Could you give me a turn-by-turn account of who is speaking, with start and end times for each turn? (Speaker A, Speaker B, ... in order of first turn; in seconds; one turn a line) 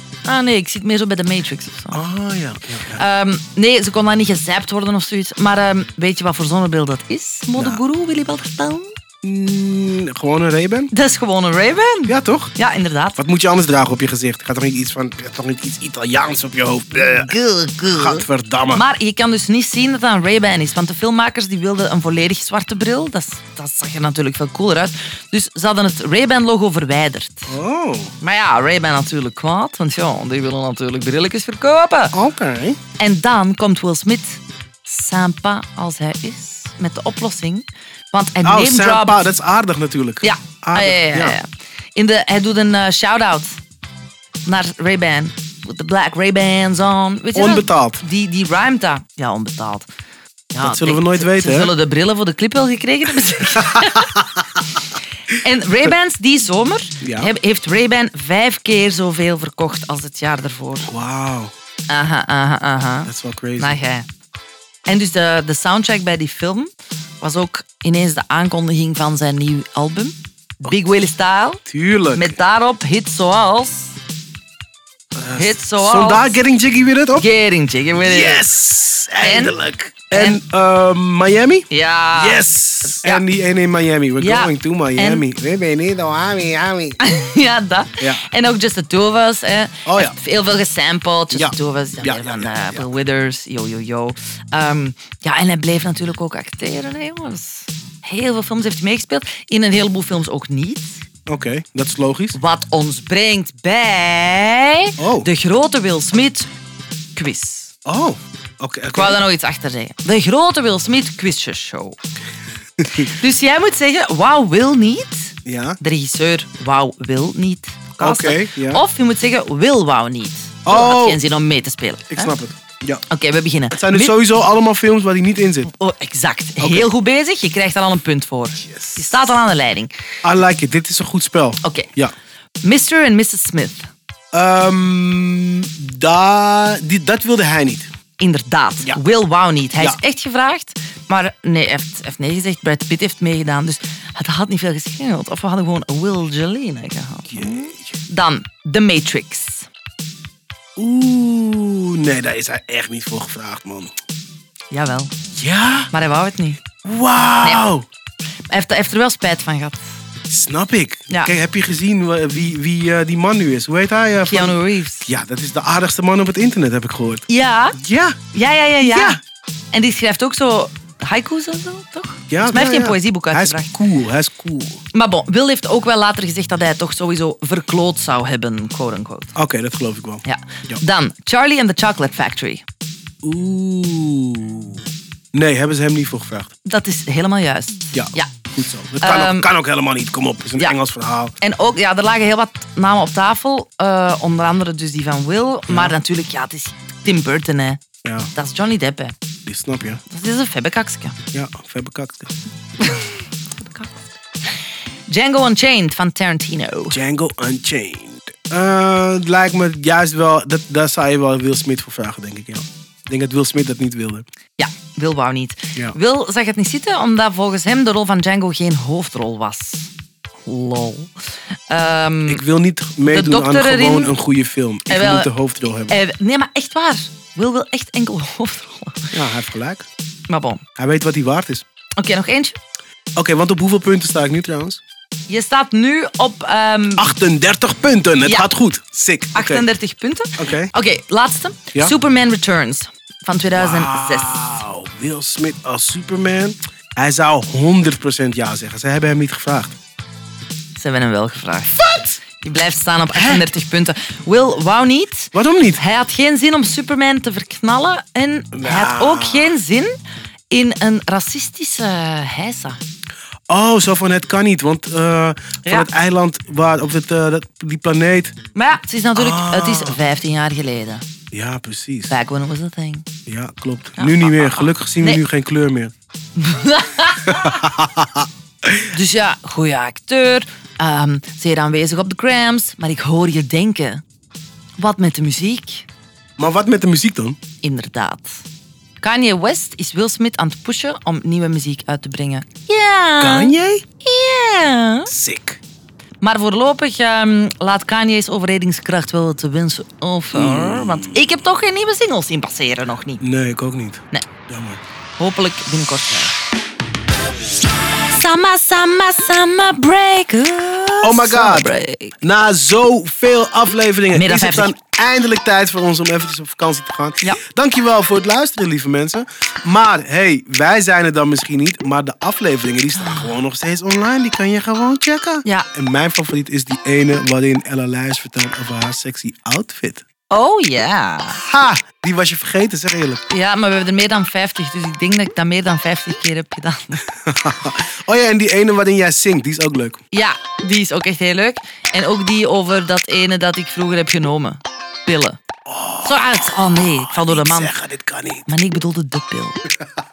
Speaker A: 0.2-2.0
Speaker B: 1.9-3.0
Speaker A: 2.9-8.9
Speaker B: 7.5-7.8
Speaker B: 9.2-10.9
Speaker A: 10.9-13.2
Speaker B: 12.1-12.5
Speaker B: 13.2-17.3
Speaker A: 17.0-27.6
Speaker B: 17.9-18.9
Speaker B: 27.5-28.1
Speaker A: 28.2-32.1
Speaker B: 32.1-32.8
Speaker A: 33.0-39.3
Speaker B: 38.4-41.4
Speaker A: 40.2-43.6
Speaker A: 44.5-49.9
Speaker B: 47.3-48.0
Speaker A: 50.5-54.2
Speaker B: 50.6-51.7
Speaker B: 53.6-54.4
Speaker A: 55.3-60.9
Speaker B: 57.0-57.3
Speaker B: 60.9-61.5
Speaker A: 61.9-64.1
Speaker B: 63.1-63.8
Speaker A: 64.9-71.6
Speaker B: 71.7-72.4
Speaker A: 72.1-74.0
Speaker B: 75.2-77.3
Speaker A: 75.3-76.4
Speaker A: 77.2-78.5
Speaker B: 78.0-87.0
Speaker A: 79.2-79.5
Speaker A: 80.1-80.4
Speaker A: 81.7-83.2
Speaker A: 84.2-85.2
Speaker A: 87.0-101.0
Speaker B: 88.0-88.3
Speaker B: 89.9-90.2
Speaker B: 91.3-92.9
Speaker B: 101.3-102.4
Speaker A: 102.3-106.5
Speaker B: 105.0-105.3
Speaker A: 107.2-107.7
Speaker B: 107.9-109.2
Speaker A: 108.9-112.0
Speaker B: 112.8-113.1
Speaker A: 112.9-122.3
Speaker B: 115.5-115.8
Speaker B: 118.0-118.8
Speaker B: 120.7-121.2
Speaker B: 122.1-123.0
Speaker A: 123.1-124.2
Speaker B: 123.7-125.7
Speaker A: 125.7-129.9
Speaker B: 126.6-126.9
Speaker B: 128.6-129.4
Speaker B: 130.2-132.1
Speaker A: 131.6-131.9
Speaker A: 132.6-133.9
Speaker B: 134.3-137.9
Speaker A: 138.2-149.7
Speaker B: 147.3-148.0
Speaker B: 150.8-153.9
Speaker A: 154.7-155.1
Speaker B: 155.3-155.9
Speaker A: 155.9-156.6
Speaker B: 156.8-157.9
Speaker A: 158.5-159.9
Speaker B: 160.3-167.2
Speaker A: 164.2-165.1
Speaker A: 167.3-167.8
Speaker B: 167.8-168.2
Speaker A: 168.3-169.2
Speaker B: 168.8-169.2
Speaker A: 169.7-173.7
Speaker B: 172.3-174.8
Speaker A: 174.9-179.3
Speaker B: 179.3-180.8
Speaker A: 180.2-182.6
Speaker B: 183.2-186.5
Speaker A: 186.7-188.4
Speaker B: 187.9-191.3
Speaker A: 189.0-189.5
Speaker A: 191.4-197.8
Speaker B: 195.7-196.0
Speaker B: 198.0-198.3
Speaker A: 198.3-199.2
Speaker B: 199.5-200.0
Speaker A: 200.1-201.2
Speaker B: 201.3-202.3
Speaker A: 202.8-204.1
Speaker A: 205.1-207.0
Speaker B: 206.9-214.2
Speaker A: 214.6-219.9
Speaker A: 220.5-222.4
Speaker B: 222.3-226.0
Speaker A: 223.1-224.2
Speaker A: 224.9-225.3
Speaker A: 225.9-229.1
Speaker B: 229.1-229.9
Speaker A: 230.3-230.6
Speaker B: 230.8-231.6
Speaker A: 232.0-232.6
Speaker B: 233.2-234.8
Speaker A: 235.3-237.1
Speaker B: 237.0-239.7
Speaker A: 239.3-244.5
Speaker B: 240.4-240.7
Speaker B: 243.5-249.8
Speaker A: 250.8-259.9
Speaker B: 253.1-253.5
Speaker B: 255.3-255.8
Speaker B: 258.5-259.6
Speaker A: 260.5-262.8
Speaker B: 263.5-268.4
Speaker A: 268.6-271.0
Speaker B: 269.1-270.0
Speaker B: 271.3-272.1
Speaker A: 272.1-273.1
Speaker B: 273.3-275.9
Speaker A: 274.0-275.2
Speaker A: 276.4-277.6
Speaker B: 277.2-278.9
Speaker A: 278.9-284.0
Speaker A: 284.8-285.9
Speaker B: 286.4-287.4
Speaker A: 287.6-288.4
Speaker A: 289.0-295.1
Speaker B: 293.2-293.9
Speaker B: 295.1-295.6
Speaker A: 296.2-303.2
Speaker B: 300.3-301.2
Speaker B: 303.2-304.8
Speaker A: 305.2-306.4
Speaker A: 308.1-312.1
Speaker B: 311.0-330.1
Speaker A: 314.1-314.7
Speaker A: 323.0-323.3
Speaker A: 330.3-331.4
Speaker B: 331.3-333.2
Speaker A: 333.3-337.1
Speaker B: 337.1-340.0
Speaker A: 340.1-345.4
Speaker B: 345.7-348.5
Speaker A: 346.0-347.8
Speaker A: 348.5-349.6